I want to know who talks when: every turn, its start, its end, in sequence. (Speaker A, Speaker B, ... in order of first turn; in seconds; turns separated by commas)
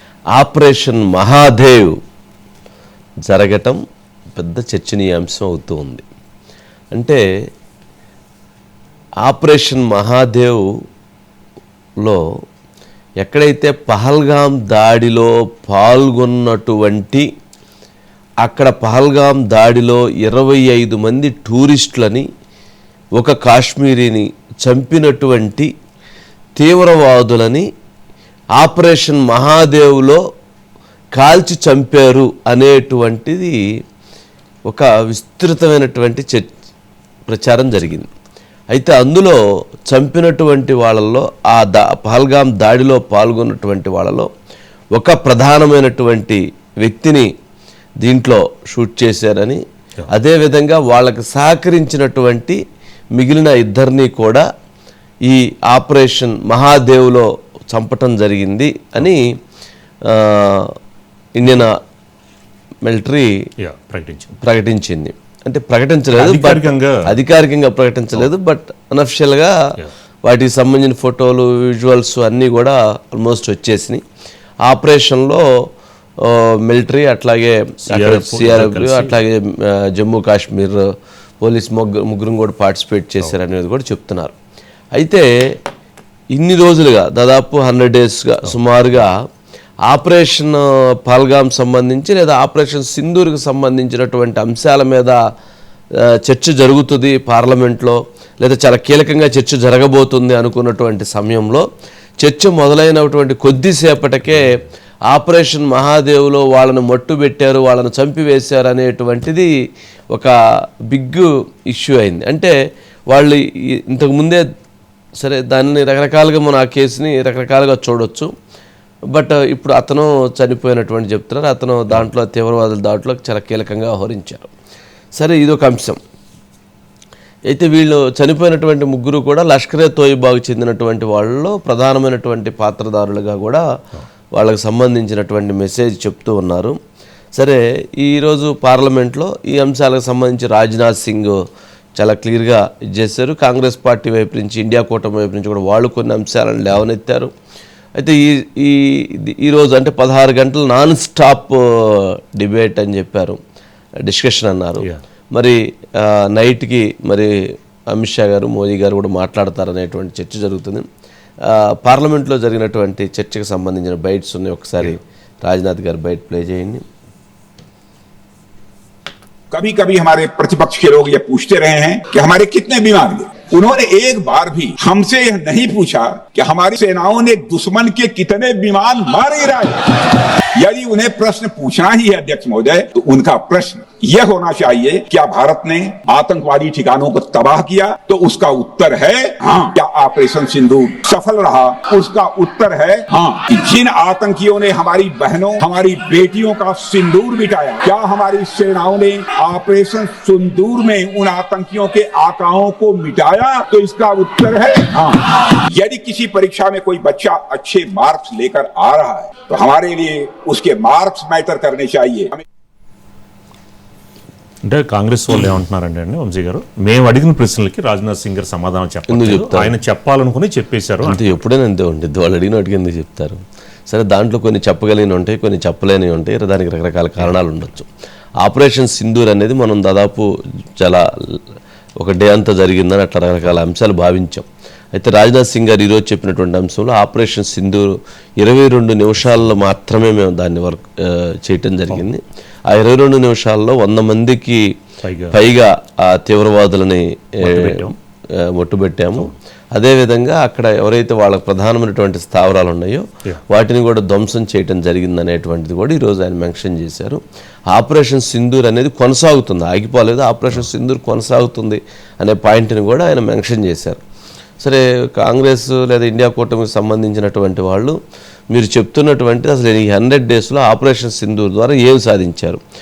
Speaker A: 0.3-1.9, Speaker A: 3.3-3.8, Speaker A: 4.4-6.0, Speaker A: 6.9-7.2, Speaker A: 9.3-10.7, Speaker A: 13.2-17.3, Speaker A: 18.4-22.3, Speaker A: 23.2-25.7, Speaker A: 26.6-27.6, Speaker A: 28.6-30.2, Speaker A: 31.1-33.5, Speaker A: 34.7-36.5, Speaker A: 37.3-38.1, Speaker A: 38.7-44.3, Speaker A: 45.0-47.3, Speaker A: 48.0-52.6, Speaker A: 53.2-54.5, Speaker A: 55.2-59.2, Speaker A: 60.1-60.7, Speaker A: 61.4-61.7, Speaker A: 62.8-63.3, Speaker B: 63.6-64.3, Speaker A: 64.4-69.5, Speaker B: 66.1-67.1, Speaker A: 70.2-74.0, Speaker A: 74.7-75.4, Speaker A: 76.2-80.9, Speaker B: 77.9-79.2, Speaker A: 81.4-84.3, Speaker A: 85.0-85.3, Speaker A: 86.3-89.1, Speaker A: 89.9-95.2, Speaker A: 96.2-101.6, Speaker A: 102.2-104.6, Speaker A: 105.1-109.5, Speaker A: 110.9-112.5, Speaker A: 113.1-114.4, Speaker A: 115.2-118.3, Speaker A: 119.1-124.5, Speaker A: 125.2-126.0, Speaker A: 127.5-133.6, Speaker A: 134.3-136.8, Speaker A: 137.3-141.4, Speaker A: 142.0-147.3, Speaker A: 148.0-153.4, Speaker A: 154.0-157.3, Speaker A: 157.9-160.8, Speaker A: 161.4-166.8, Speaker C: 169.5-212.4, Speaker B: 214.6-221.4, Speaker A: 219.1-219.7, Speaker A: 221.0-227.9, Speaker A: 228.4-230.3, Speaker A: 230.8-231.4, Speaker A: 232.0-244.7, Speaker B: 245.0-245.3, Speaker A: 245.3-257.2, Speaker B: 247.4-247.9, Speaker A: 257.7-264.0, Speaker A: 264.6-268.0, Speaker A: 268.5-272.6